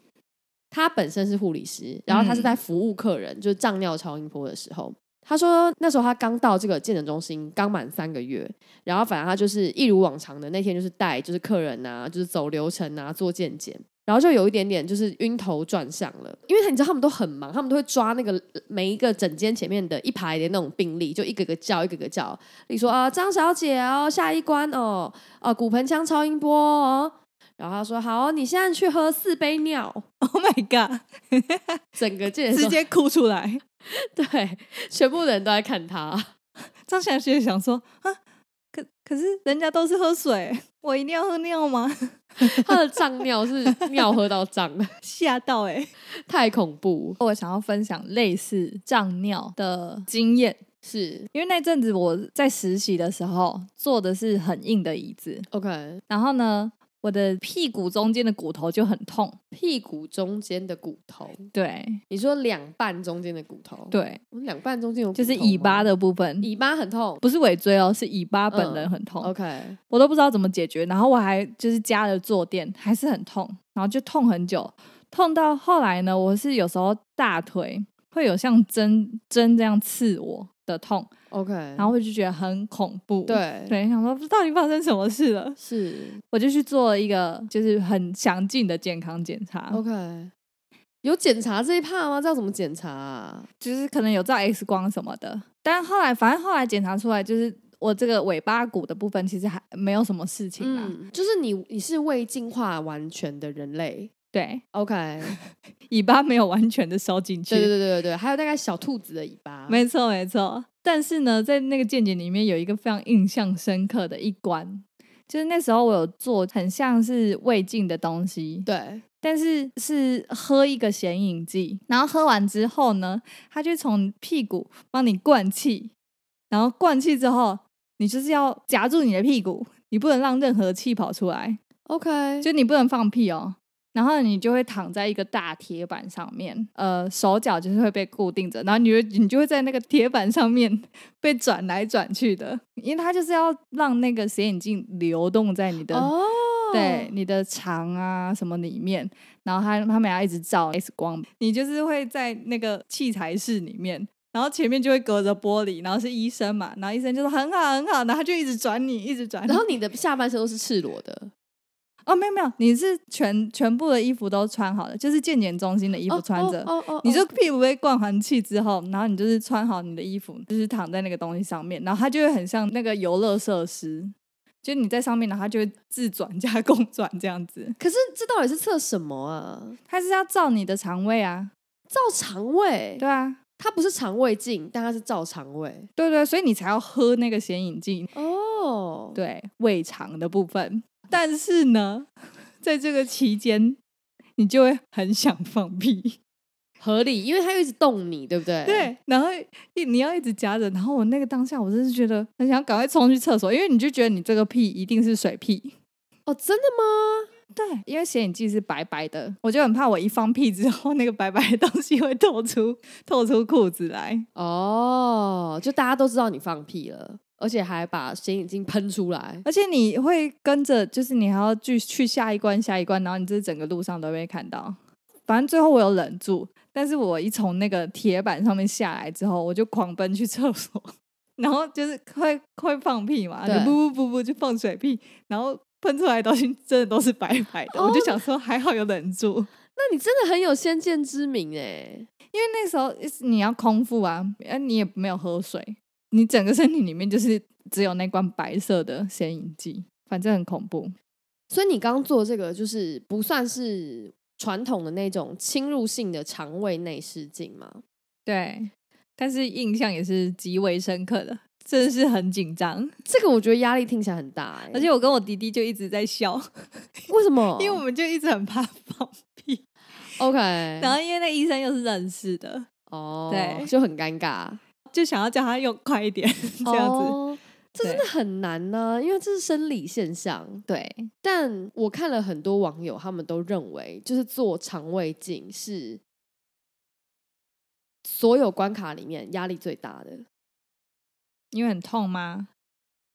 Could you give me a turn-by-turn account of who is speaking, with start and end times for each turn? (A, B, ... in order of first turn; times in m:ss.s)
0:00.7-0:30.0 A
0:02.1-0:02.6 B
0:30.2-0:31.8 B
0:32.0-0:32.8 A
0:32.5-0:33.6 B
0:33.8-0:36.3 A
0:36.9-0:38.2 B
0:38.7-0:42.7 B
0:42.4-0:44.9 A
0:45.0-0:45.9 B
0:46.1-0:47.2 A
0:47.2-0:50.6 B
0:50.8-0:51.3 A
0:51.3-0:55.5 B
0:55.5-0:56.0 A
0:56.1-0:59.4 B
0:59.5-1:01.5 A
1:01.5-1:02.0 B
1:02.1-1:05.9 A
1:03.9-1:04.2 B
1:05.1-1:06.5 B
1:06.4-1:07.2 A
1:07.2-1:09.3 B
1:08.5-1:09.8 A
1:09.9-1:21.1 B
1:21.3-1:21.9 A
1:21.8-1:25.6 B
1:23.3-1:23.7 A
1:25.6-1:26.2 A
1:26.3-1:29.8 B
1:29.7-1:30.3 A
1:31.0-1:33.5 A
1:33.6-1:40.9 B
1:40.6-1:44.1 A
1:44.3-1:44.6 B
1:44.7-1:45.4 A
1:45.3-1:47.7 B
1:47.5-1:49.8 A
1:49.7-1:58.7 B
1:58.6-1:59.0 A
1:59.2-2:05.9 B
2:06.5-2:11.6 B
2:11.9-2:12.5 A
2:12.4-2:26.1 B
2:25.9-2:27.1 A
2:26.7-2:39.6 B
2:39.5-2:41.3 A
2:42.1-2:57.8 B
2:46.1-2:47.3 A
2:57.8-2:59.8 A
2:59.9-3:01.5 B
3:01.9-3:03.0 A
3:03.0-3:03.4 B
3:03.6-3:05.9 A
3:06.0-3:08.1 B
3:08.1-3:09.2 A
3:09.1-3:12.1 B
3:12.6-3:13.8 B
3:14.4-3:16.2 B
3:16.8-3:18.9 A
3:18.6-3:25.7 B
3:26.2-3:27.3 A
3:27.5-3:34.2 B
3:34.4-3:39.4 A
3:39.4-3:59.5 B
3:53.4-3:53.8 A
3:57.7-3:58.2 A
3:59.8-4:02.1 A
4:02.3-4:10.9 B
4:11.5-4:17.8 A
4:18.2-4:22.9 B
4:23.0-4:24.9 A
4:24.7-4:29.6 B
4:27.1-4:27.8 A
4:30.2-4:31.0 A
4:30.8-4:32.7 B
4:32.9-4:34.6 A
4:33.3-4:33.7 B
4:34.9-4:37.2 B
4:36.6-4:40.6 A
4:40.7-4:41.1 B
4:41.2-4:46.0 A
4:48.0-4:50.2 A
4:51.5-4:52.5 B